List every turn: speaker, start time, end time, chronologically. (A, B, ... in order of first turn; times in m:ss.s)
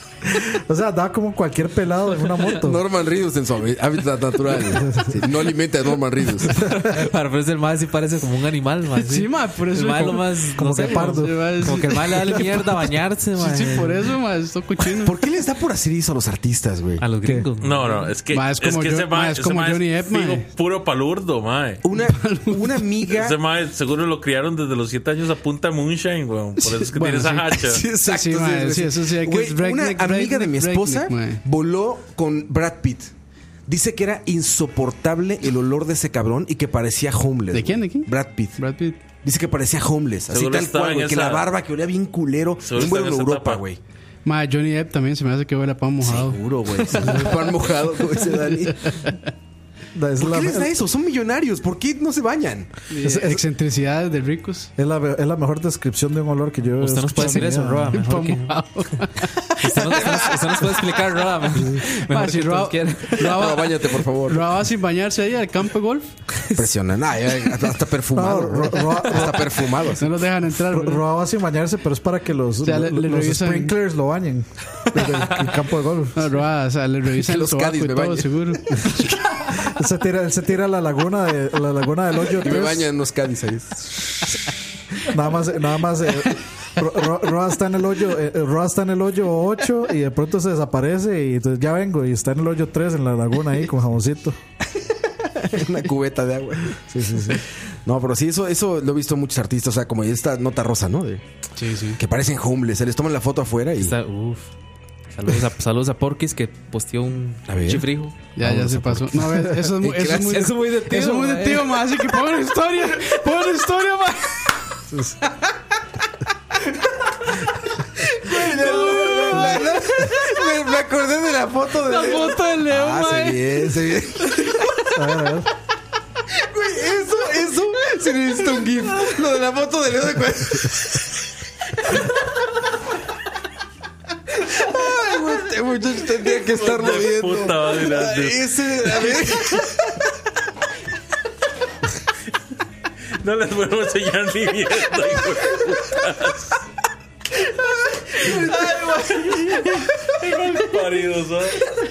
0:00.4-0:02.8 A
0:02.5-0:06.7 B
0:04.7-0:05.2 A
0:06.6-0:14.1 C
0:09.0-0:15.2 D
0:10.6-0:11.5 A
0:15.0-0:17.0 B
0:17.0-0:18.0 C
0:17.6-0:21.8 E
0:18.3-0:20.5 D
0:21.8-0:23.4 B
0:22.0-0:22.8 D
0:23.1-0:27.8 E
0:26.9-0:31.4 D
0:27.6-0:33.1 B
0:33.7-0:38.6 B
0:37.5-0:39.0 D
0:39.2-0:43.8 B
0:40.3-0:41.5 E
0:42.6-0:43.6 E
0:44.2-0:47.5 D
0:46.0-0:49.0 B
0:48.9-0:49.2 D
0:49.9-0:50.7 A
0:50.2-0:52.7 B
0:52.9-0:54.7 D
0:53.0-0:53.4 A
0:54.8-0:58.0 A
0:56.8-0:58.6 C
0:57.2-1:00.0 D
0:59.6-1:03.4 C
0:59.9-1:00.2 B
1:01.7-1:06.2 D
1:03.2-1:04.5 B
1:06.6-1:10.1 B
1:08.1-1:09.5 A
1:10.0-1:11.1 D
1:10.7-1:16.3 A
1:12.6-1:13.8 D
1:16.2-1:18.8 D
1:17.1-1:19.0 B
1:19.5-1:22.9 A
1:22.4-1:24.4 B
1:25.1-1:34.4 A
1:35.2-1:41.2 B
1:36.9-1:37.4 A
1:41.6-1:42.0 D
1:42.0-1:44.0 B
1:43.8-1:44.5 C
1:45.2-1:48.2 C
1:47.5-1:50.6 B
1:48.4-1:54.8 D
1:50.3-1:51.8 C
1:54.9-1:55.2 A
1:58.2-2:04.8 B
1:58.2-1:59.7 D
2:01.8-2:03.5 D
2:05.0-2:05.5 A
2:06.3-2:11.0 B
2:14.3-2:20.0 B
2:16.5-2:19.0 E
2:23.2-2:26.5 E
2:28.1-2:30.2 B
2:30.1-2:31.6 E